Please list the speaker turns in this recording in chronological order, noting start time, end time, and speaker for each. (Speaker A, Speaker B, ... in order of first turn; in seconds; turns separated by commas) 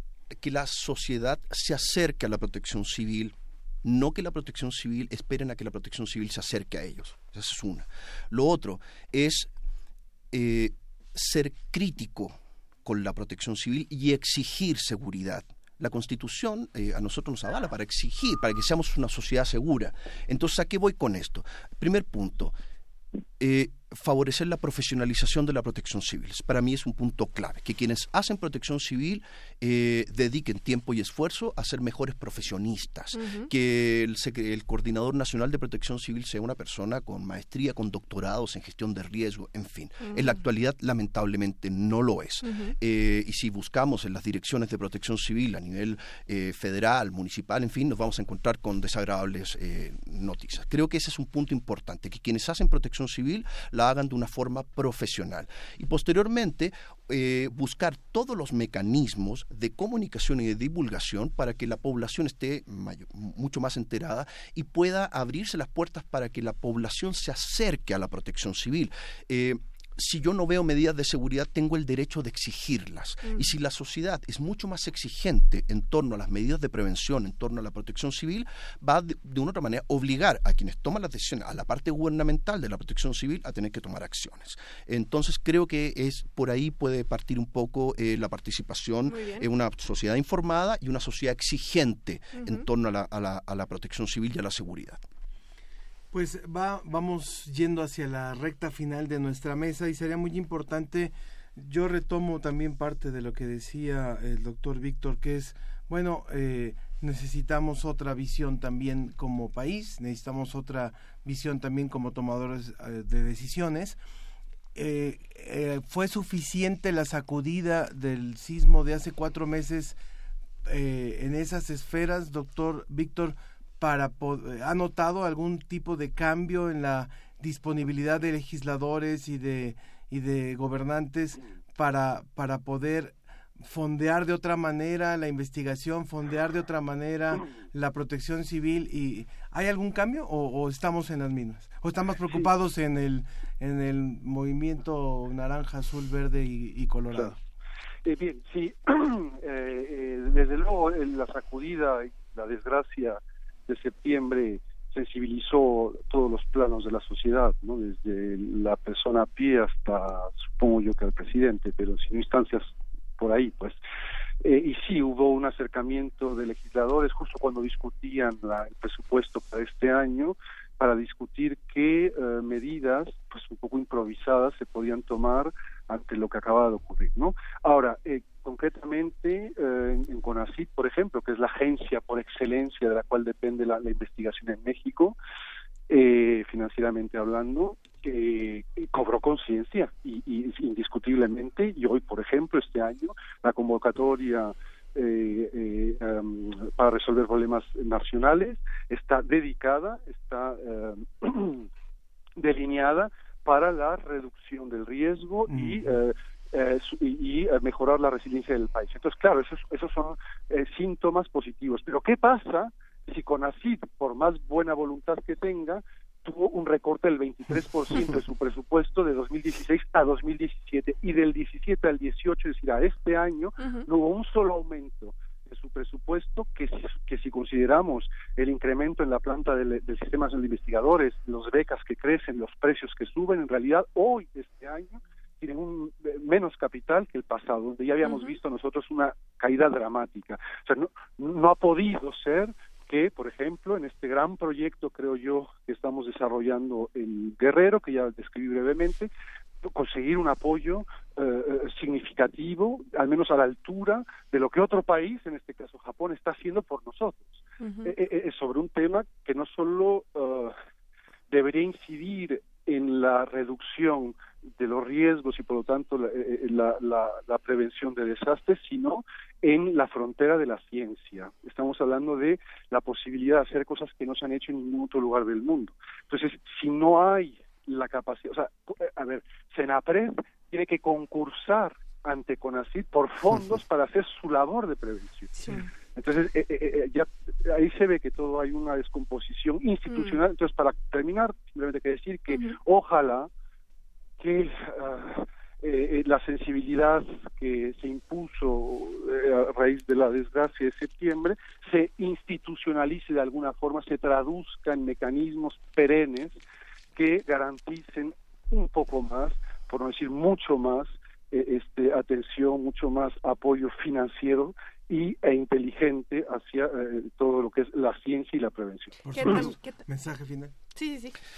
Speaker A: 0.3-9.5, Speaker A: 10.3-22.5, Speaker A: 23.4-95.0, Speaker B: 33.1-33.5, Speaker B: 40.0-40.4, Speaker B: 42.4-42.8, Speaker B: 73.2-73.5, Speaker B: 89.1-89.5, Speaker B: 92.3-92.7, Speaker C: 96.1-114.0, Speaker C: 114.8-120.0, Speaker C: 120.7-147.4, Speaker D: 142.2-142.5, Speaker D: 148.1-163.8, Speaker D: 164.4-185.2, Speaker D: 185.9-201.7, Speaker D: 202.4-249.1, Speaker C: 205.5-205.8, Speaker B: 223.6-223.9, Speaker B: 238.0-238.4, Speaker D: 249.6-260.6, Speaker B: 257.6-257.9, Speaker D: 261.3-293.3, Speaker B: 285.4-285.7, Speaker B: 289.9-290.2, Speaker B: 292.3-292.6, Speaker D: 294.2-306.4, Speaker D: 307.0-319.4, Speaker C: 319.0-320.5, Speaker B: 319.1-319.8, Speaker B: 320.8-321.1